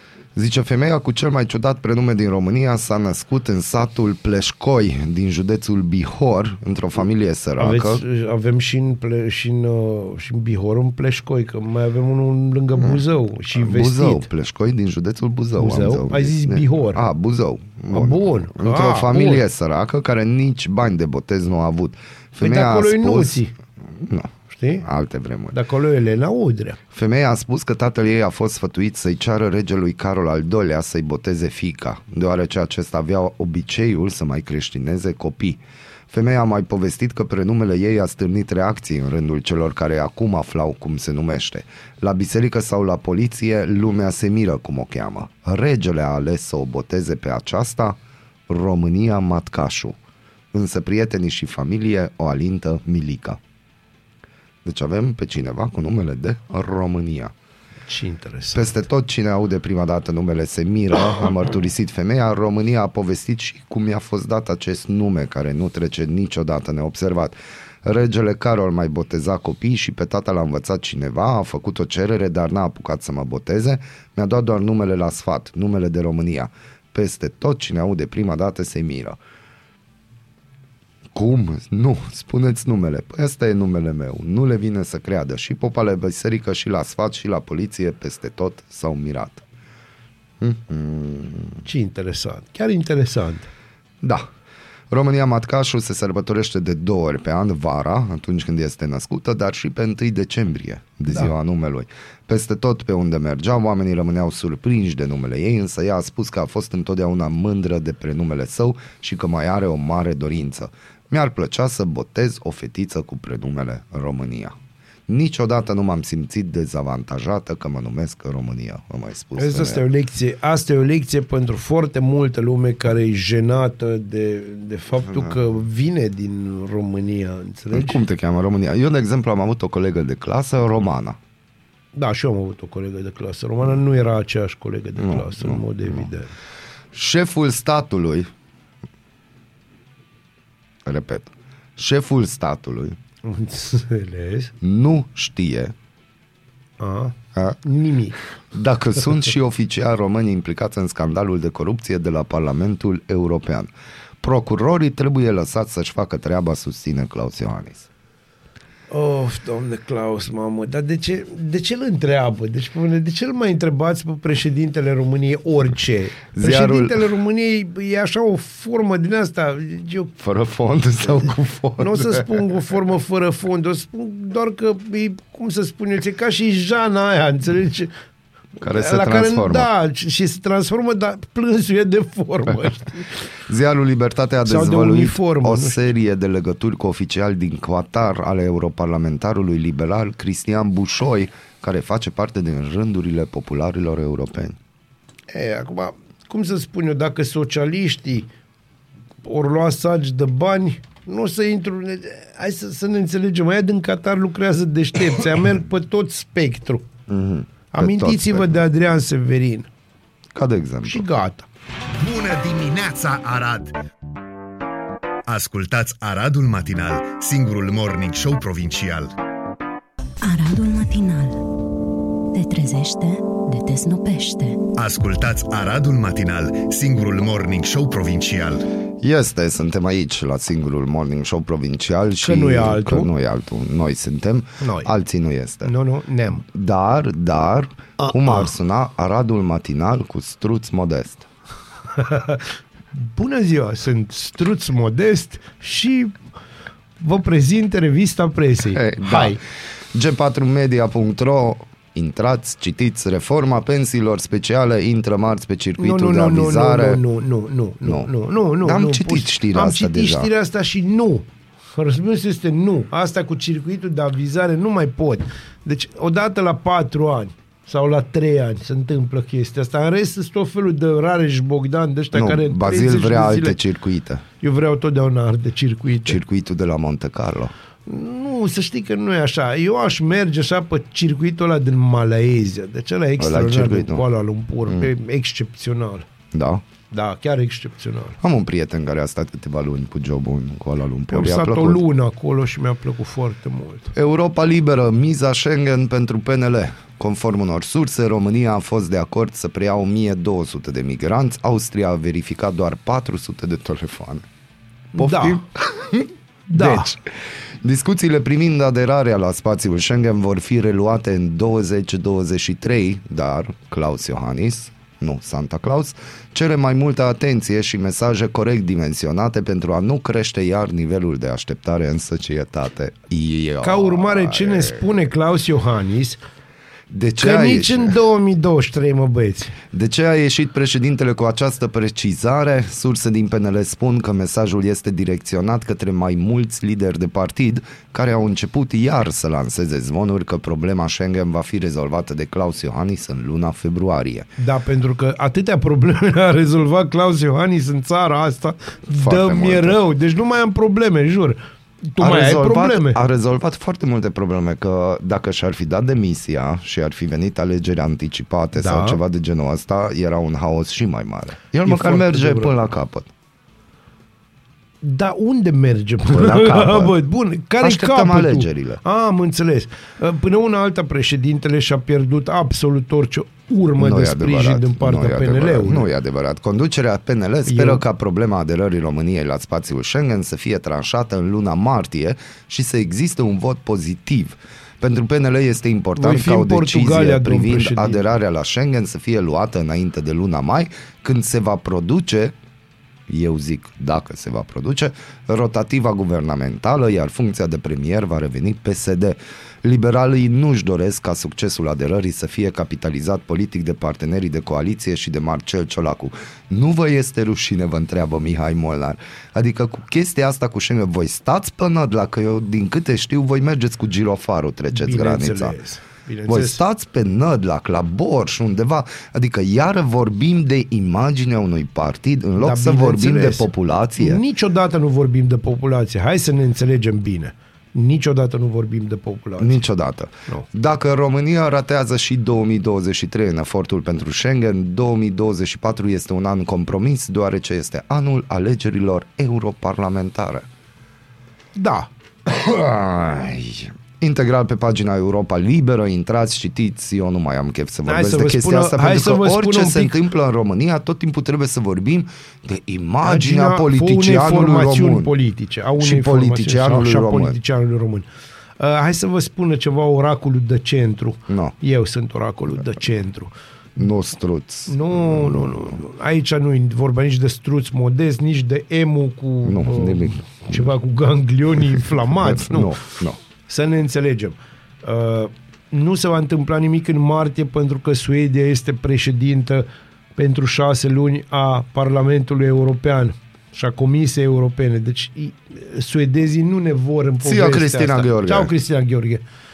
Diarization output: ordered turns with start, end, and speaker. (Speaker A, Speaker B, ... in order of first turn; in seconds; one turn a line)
Speaker A: 0.3-8.0
Speaker B: 7.6-14.3
Speaker A: 12.7-25.6
Speaker B: 15.6-17.0
Speaker B: 17.9-19.4
Speaker B: 22.4-23.5
Speaker B: 24.5-24.9
Speaker B: 25.5-26.8
Speaker A: 26.9-50.0
Speaker A: 50.5-53.4
Speaker A: 54.6-57.3
Speaker B: 57.9-58.7
Speaker A: 58.5-79.2
Speaker A: 81.1-89.4
Speaker A: 90.4-91.6
Speaker B: 91.6-93.5
Speaker A: 94.0-94.3
Speaker A: 94.9-114.6
Speaker A: 115.1-119.8
Speaker B: 119.4-128.0
Speaker A: 127.7-131.2
Speaker B: 131.9-136.3
Speaker A: 135.0-136.1
Speaker A: 136.9-138.3
Speaker A: 140.8-143.0
Speaker B: 143.2-144.5
Speaker A: 144.6-145.7
Speaker B: 146.8-148.2
Speaker A: 148.5-157.9
Speaker B: 158.9-170.1
Speaker A: 166.3-167.0
Speaker A: 170.2-172.4
Speaker B: 171.8-177.9
Speaker A: 178.6-179.7
Speaker B: 178.6-183.1
Speaker A: 183.5-194.6
Speaker B: 184.4-185.9
Speaker B: 195.3-198.3
Speaker B: 199.2-206.8
Speaker A: 207.1-208.6
Speaker B: 207.7-209.7
Speaker A: 210.3-211.0
Speaker B: 210.8-211.5
Speaker C: 212.0-213.8
Speaker C: 215.3-219.1
Speaker D: 220.2-221.5
Speaker D: 222.3-224.6
Speaker C: 224.8-228.7
Speaker A: 229.0-235.7
Speaker B: 232.2-233.1
Speaker B: 234.6-234.9
Speaker B: 235.6-236.4
Speaker A: 236.4-241.3
Speaker B: 241.9-246.2
Speaker B: 247.0-249.4
Speaker A: 248.7-249.4
Speaker A: 249.9-257.0
Speaker B: 255.8-273.6
Speaker A: 257.8-258.1
Speaker A: 258.6-260.3
Speaker A: 272.1-274.2
Speaker B: 274.4-276.2
Speaker A: 276.0-277.5
Speaker B: 277.9-286.1
Speaker A: 283.2-284.0
Speaker A: 286.3-286.6
Speaker B: 286.9-288.2
Speaker A: 288.2-291.8
Speaker B: 291.1-293.9
Speaker A: 293.9-304.3
Speaker B: 304.9-305.4
Speaker A: 305.0-307.1
Speaker B: 306.5-306.9
Speaker A: 307.6-324.9
Speaker B: 323.6-326.2
Speaker A: 326.9-328.0
Speaker B: 327.2-329.6
Speaker A: 329.7-344.3
Speaker B: 344.4-353.0
Speaker A: 348.9-349.8
Speaker A: 352.0-363.1
Speaker B: 358.5-359.0
Speaker B: 361.6-362.5
Speaker B: 364.8-375.9
Speaker A: 366.1-367.0
Speaker A: 367.6-368.8
Speaker A: 373.8-392.3
Speaker B: 377.5-377.8
Speaker B: 386.0-388.0
Speaker A: 393.1-415.6
Speaker B: 414.7-416.6
Speaker A: 416.3-424.2
Speaker B: 422.4-429.6
Speaker A: 429.4-440.5
Speaker B: 441.5-441.9
Speaker A: 442.2-455.1
Speaker B: 447.9-449.9
Speaker B: 453.0-458.1
Speaker A: 455.8-457.4
Speaker B: 458.6-463.3
Speaker A: 461.3-461.5
Speaker A: 463.8-465.8
Speaker B: 464.7-472.9
Speaker A: 469.4-470.8
Speaker A: 472.1-473.2
Speaker B: 473.5-489.2
Speaker A: 487.2-488.5